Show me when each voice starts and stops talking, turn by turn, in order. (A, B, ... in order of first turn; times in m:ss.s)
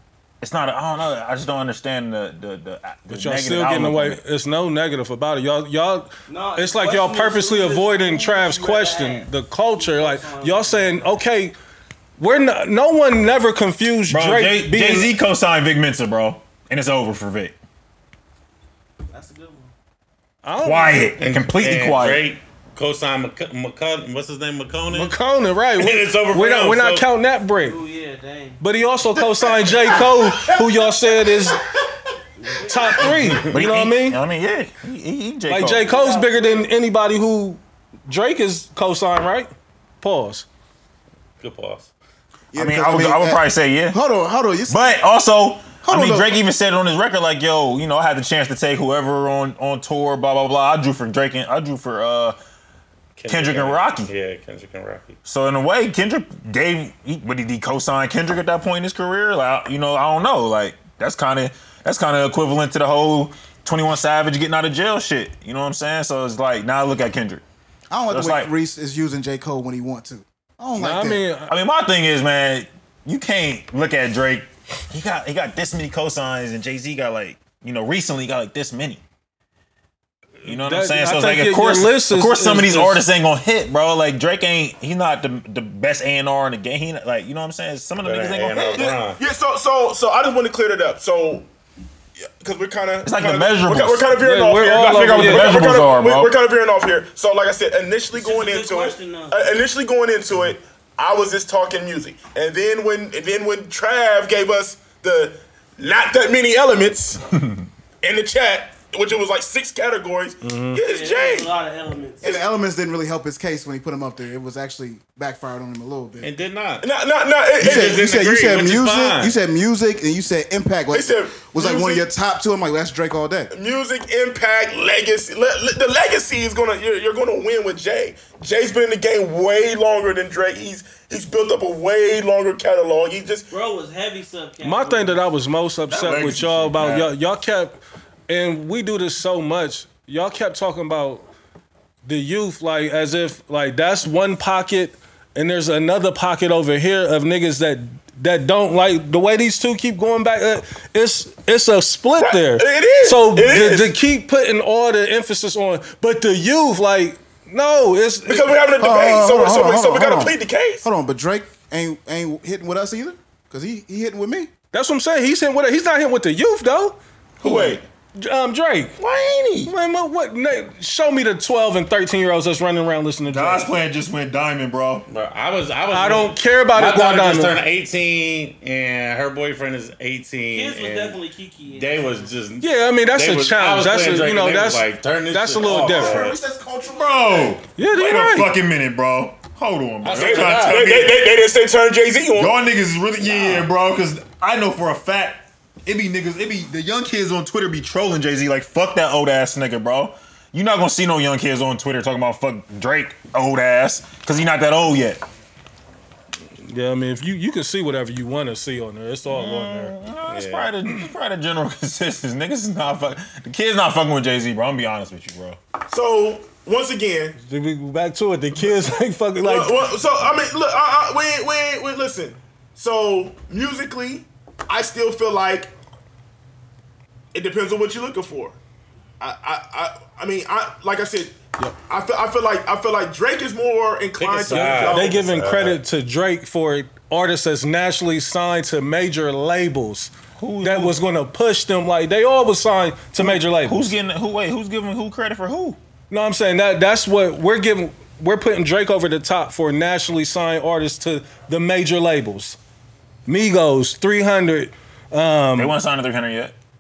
0:00.4-0:04.2 A
0:03.1-0:11.6 B
0:06.3-0:11.1 C
0:12.2-0:15.1 B
0:14.1-0:17.6 A
0:19.1-0:19.7 C
0:20.4-0:21.2 B
0:20.6-0:22.2 A
0:21.2-0:25.1 D
0:24.9-0:27.8 B
0:25.8-0:27.1 D
0:27.6-0:28.6 C
0:28.6-0:31.6 B
0:32.5-0:33.0 C
0:32.6-0:34.2 B
0:33.1-0:33.4 D
0:33.3-0:36.0 A
0:35.5-0:40.5 B
0:35.8-0:36.7 C
0:41.4-0:41.9 D
0:42.5-0:45.0 E
0:42.6-0:44.0 A
0:44.7-0:52.4 A
0:45.8-0:46.4 E
0:53.2-0:55.2 D
0:53.3-0:54.1 A
0:55.2-1:07.4 A
1:07.9-1:11.2 E
1:08.1-1:08.5 A
1:10.8-1:11.5 B
1:11.5-1:19.0 A
1:20.4-1:23.0 B
1:20.4-1:28.8 A
1:28.0-1:29.2 D
1:28.5-1:31.5 F
1:32.2-1:47.2 F
1:33.0-1:34.1 A
1:34.1-1:35.6 B
1:34.7-1:36.3 A
1:38.1-1:39.5 C
1:48.0-1:51.5 F
1:50.4-1:50.8 B
1:50.8-1:52.4 C
1:52.2-1:56.3 E
1:56.2-1:56.9 D
1:56.8-1:58.0 F
1:57.6-2:03.5 E
1:57.6-1:59.4 D
2:00.9-2:02.1 F
2:03.5-2:13.5 F
2:13.5-2:15.3 C
2:14.6-2:21.3 B
2:15.9-2:17.1 A
2:22.0-2:38.5 B
2:32.2-2:33.9 F
2:38.3-2:40.9 F
2:38.8-2:44.5 E
2:44.7-2:47.0 B
2:47.4-2:47.8 F
2:47.4-2:47.8 A
2:48.2-2:48.9 B
2:49.0-2:49.7 A
2:49.6-2:53.7 B
2:53.3-2:55.1 A
2:55.1-3:06.4 D
2:55.9-2:57.6 B
3:00.5-3:02.3 C
3:02.6-3:06.3 B
3:05.7-3:07.6 E
3:06.9-3:11.2 A
3:07.8-3:08.5 B
3:10.0-3:10.9 D
3:10.1-3:12.6 F
3:12.4-3:25.2 A
3:13.3-3:13.6 D
3:26.6-3:29.9 B
3:29.3-3:35.6 A
3:30.3-3:30.7 D
3:35.9-3:37.4 F
3:37.4-3:39.8 B
3:39.4-3:45.7 F
3:47.3-3:48.6 F
3:49.2-3:55.3 F
3:54.2-3:55.8 D
3:54.5-4:03.9 B
4:00.4-4:01.0 A
4:03.2-4:05.8 A
4:06.1-4:12.6 B
4:13.3-4:15.8 B
4:15.6-4:16.6 A